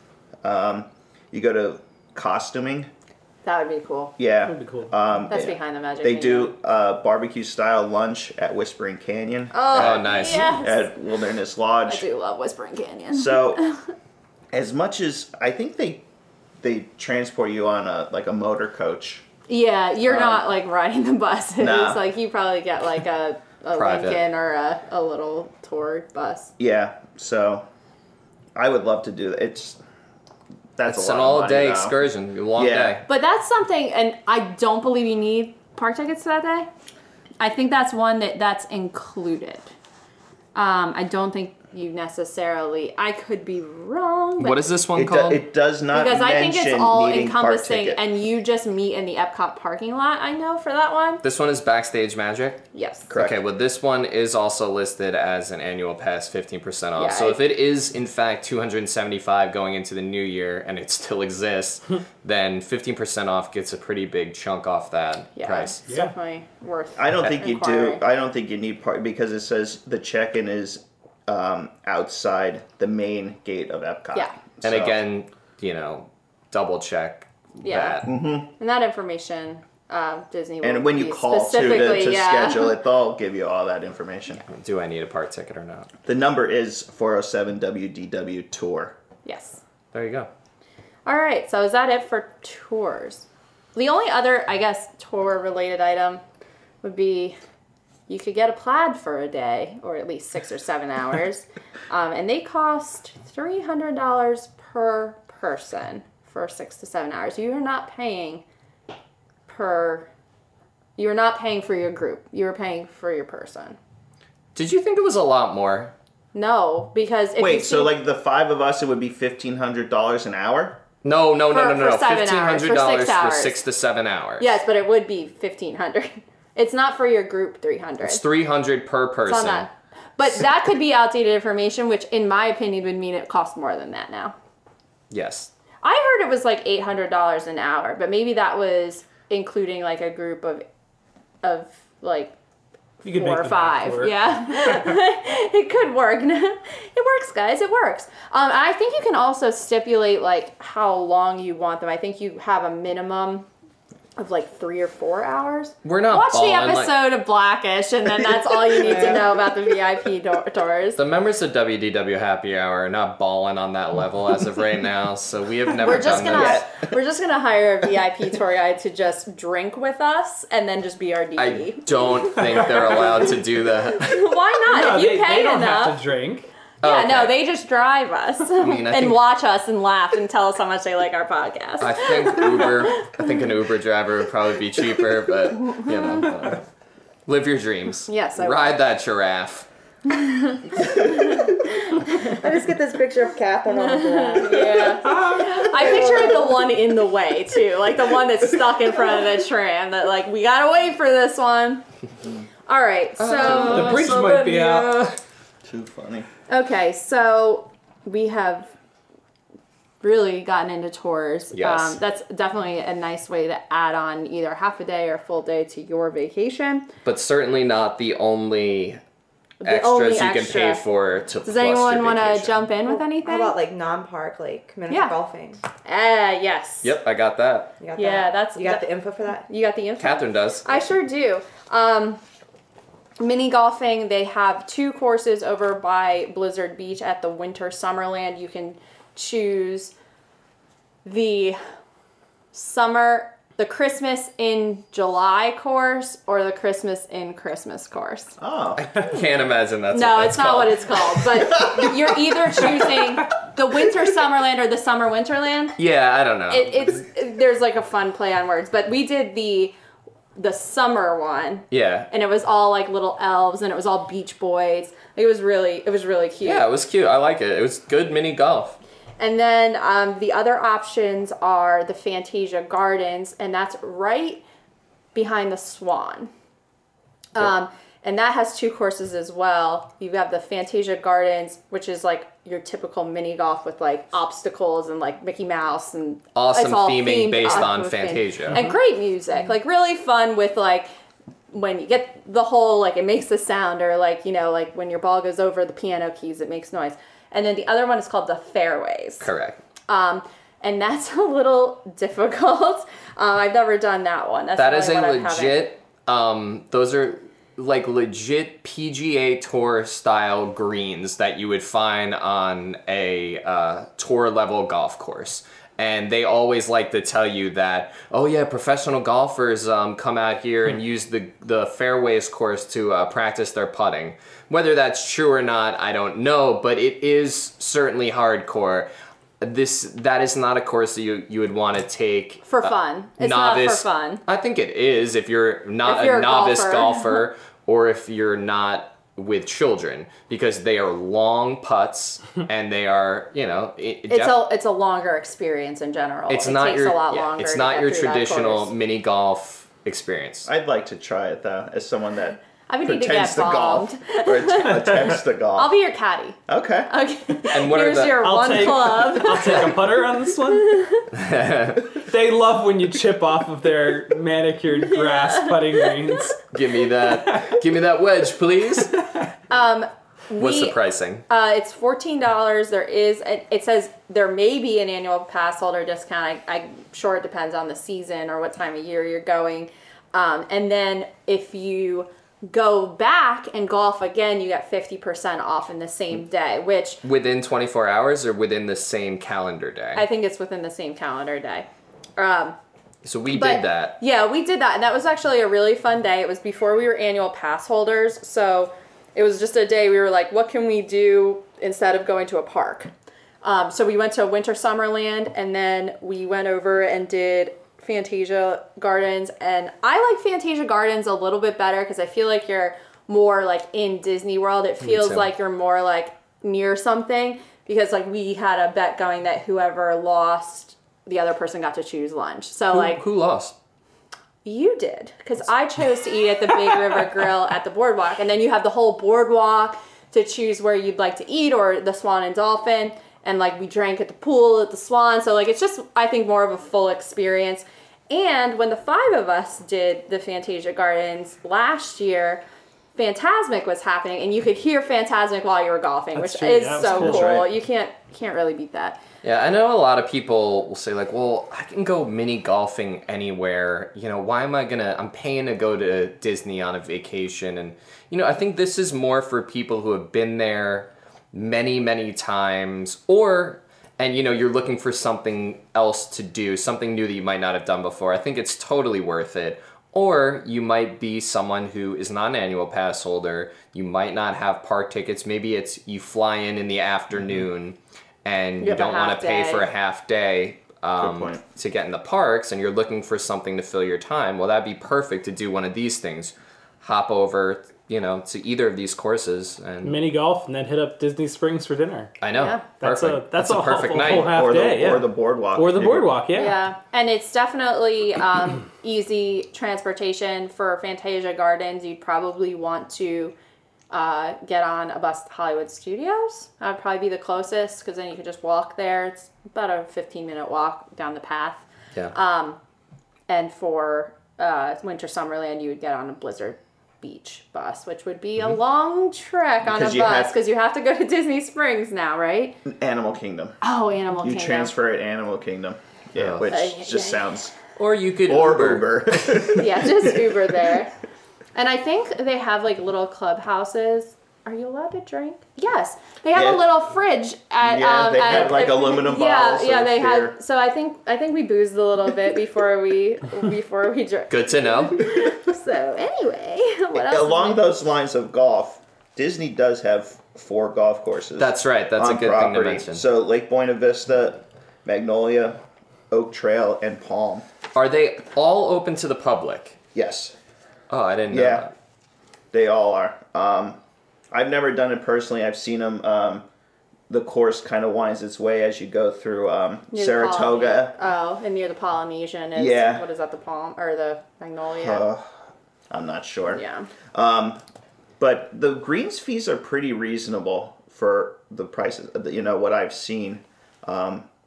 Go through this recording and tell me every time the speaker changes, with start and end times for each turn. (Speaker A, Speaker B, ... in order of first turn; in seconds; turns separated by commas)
Speaker A: 0.4-2.9, Speaker B: 3.4-4.1, Speaker A: 4.2-12.1, Speaker C: 4.4-4.9, Speaker B: 5.3-6.5, Speaker B: 9.5-10.9, Speaker D: 9.7-10.6, Speaker B: 11.8-13.8, Speaker A: 13.1-13.6, Speaker A: 14.5-16.0, Speaker A: 16.6-19.2, Speaker B: 19.5-26.5, Speaker A: 20.1-20.5, Speaker A: 21.6-22.0, Speaker D: 23.8-24.2, Speaker A: 26.6-27.6, Speaker A: 28.6-29.8, Speaker A: 30.8-31.9, Speaker D: 30.9-33.0, Speaker A: 32.5-33.0, Speaker B: 33.1-36.7, Speaker B: 37.4-39.7, Speaker B: 40.5-44.6, Speaker D: 44.4-45.4, Speaker A: 44.9-48.0, Speaker B: 45.9-51.2, Speaker D: 51.2-65.8, Speaker B: 52.7-53.1, Speaker A: 53.1-53.4, Speaker B: 57.0-57.4, Speaker B: 65.4-68.0, Speaker C: 65.9-66.1, Speaker A: 67.0-75.0, Speaker D: 74.6-78.1, Speaker B: 77.6-82.7, Speaker A: 78.0-78.5, Speaker A: 80.6-84.5, Speaker D: 84.5-85.9, Speaker A: 86.0-88.9, Speaker B: 89.2-89.6, Speaker D: 89.9-90.3, Speaker B: 91.0-96.2, Speaker B: 96.8-97.4, Speaker B: 98.1-108.4, Speaker B: 109.5-110.1, Speaker B: 111.0-113.8, Speaker D: 114.5-115.9, Speaker B: 116.3-117.9, Speaker A: 117.4-120.8, Speaker D: 121.0-124.6, Speaker B: 121.5-123.6, Speaker B: 124.4-128.2, Speaker D: 128.0-129.7, Speaker B: 129.3-134.3, Speaker D: 135.1-135.5, Speaker B: 135.8-140.6, Speaker B: 141.4-142.3, Speaker C: 143.0-144.9, Speaker B: 143.1-153.5, Speaker B: 154.2-161.0, Speaker D: 155.8-156.9, Speaker E: 158.8-159.2, Speaker D: 161.0-166.7, Speaker B: 165.8-173.1, Speaker A: 166.1-166.9, Speaker D: 171.4-174.3, Speaker B: 173.9-176.0, Speaker C: 174.7-176.5, Speaker D: 176.8-177.4, Speaker B: 176.8-183.3, Speaker D: 178.6-179.2, Speaker D: 181.8-186.6, Speaker B: 185.7-185.9, Speaker D: 187.3-189.7, Speaker B: 188.1-188.8, Speaker B: 190.1-192.4, Speaker E: 192.2-196.6, Speaker B: 193.7-201.8, Speaker B: 202.7-205.1, Speaker D: 203.2-204.4, Speaker C: 203.4-205.0, Speaker A: 205.7-206.3, Speaker B: 206.5-208.7, Speaker B: 210.0-216.9, Speaker D: 211.5-212.0, Speaker D: 217.0-219.0, Speaker B: 219.6-220.8, Speaker D: 219.6-222.7, Speaker B: 221.4-223.5, Speaker E: 222.9-225.6, Speaker B: 224.9-225.2, Speaker B: 225.8-226.9, Speaker D: 226.8-227.7, Speaker E: 227.8-229.4, Speaker B: 227.9-228.8, Speaker B: 229.5-232.2, Speaker D: 230.0-230.8, Speaker B: 233.2-239.9, Speaker B: 241.0-241.6, Speaker B: 242.5-248.3, Speaker A: 248.4-248.8, Speaker D: 248.8-251.5, Speaker B: 249.9-255.8, Speaker D: 255.8-256.9, Speaker B: 256.5-259.7, Speaker B: 260.4-266.7, Speaker D: 261.7-262.1, Speaker D: 266.4-268.8, Speaker B: 269.2-274.4, Speaker B: 275.1-276.3, Speaker B: 277.3-290.9, Speaker D: 286.3-288.7, Speaker B: 291.5-299.3, Speaker D: 299.2-299.6, Speaker B: 299.9-305.7, Speaker D: 304.6-328.9, Speaker D: 329.4-344.4, Speaker B: 332.4-334.2, Speaker B: 335.8-337.2, Speaker B: 344.1-348.7, Speaker D: 346.3-350.5, Speaker A: 350.4-355.7, Speaker B: 352.7-359.8, Speaker A: 356.5-356.9, Speaker D: 357.5-358.2, Speaker C: 358.2-360.9, Speaker B: 360.5-361.1, Speaker D: 361.1-361.9, Speaker C: 362.0-366.4, Speaker B: 364.7-366.3, Speaker D: 366.5-368.9, Speaker B: 369.5-370.8, Speaker D: 370.4-371.2, Speaker B: 371.3-387.0, Speaker D: 387.0-390.1, Speaker B: 389.9-392.6, Speaker D: 393.0-394.0, Speaker B: 393.3-402.9, Speaker B: 403.4-423.0, Speaker D: 414.8-415.3, Speaker D: 422.7-423.5, Speaker B: 424.4-442.4, Speaker B: 442.9-449.0, Speaker C: 446.1-447.4, Speaker A: 446.9-447.5, Speaker D: 449.2-489.9, Speaker B: 478.6-479.7, Speaker A: 481.0-481.4, Speaker C: 489.8-492.1, Speaker D: 492.2-494.4, Speaker B: 492.3-492.6, Speaker C: 492.8-496.6, Speaker A: 494.1-496.1, Speaker B: 496.3-503.3, Speaker B: 503.9-512.6, Speaker B: 513.3-522.6, Speaker A: 519.6-520.4, Speaker A: 522.6-523.5, Speaker B: 523.6-524.7, Speaker A: 524.2-527.5, Speaker D: 526.1-526.5, Speaker B: 526.5-527.3, Speaker D: 527.8-529.4, Speaker A: 528.2-530.4, Speaker B: 529.5-530.9, Speaker B: 531.5-547.7, Speaker A: 536.3-536.7, Speaker A: 537.6-540.4, Speaker D: 544.3-545.3, Speaker A: 546.9-557.4, Speaker D: 551.4-553.0, Speaker D: 557.7-559.8, Speaker A: 559.9-560.3, Speaker D: 560.9-561.7, Speaker A: 561.3-561.7, Speaker A: 562.5-563.8, Speaker A: 564.3-566.5, Speaker A: 567.1-570.9, Speaker B: 569.9-575.0, Speaker A: 572.5-573.0, Speaker A: 574.7-575.3, Speaker A: 575.9-576.6, Speaker B: 576.5-576.9, Speaker A: 577.1-577.6, Speaker A: 578.2-584.3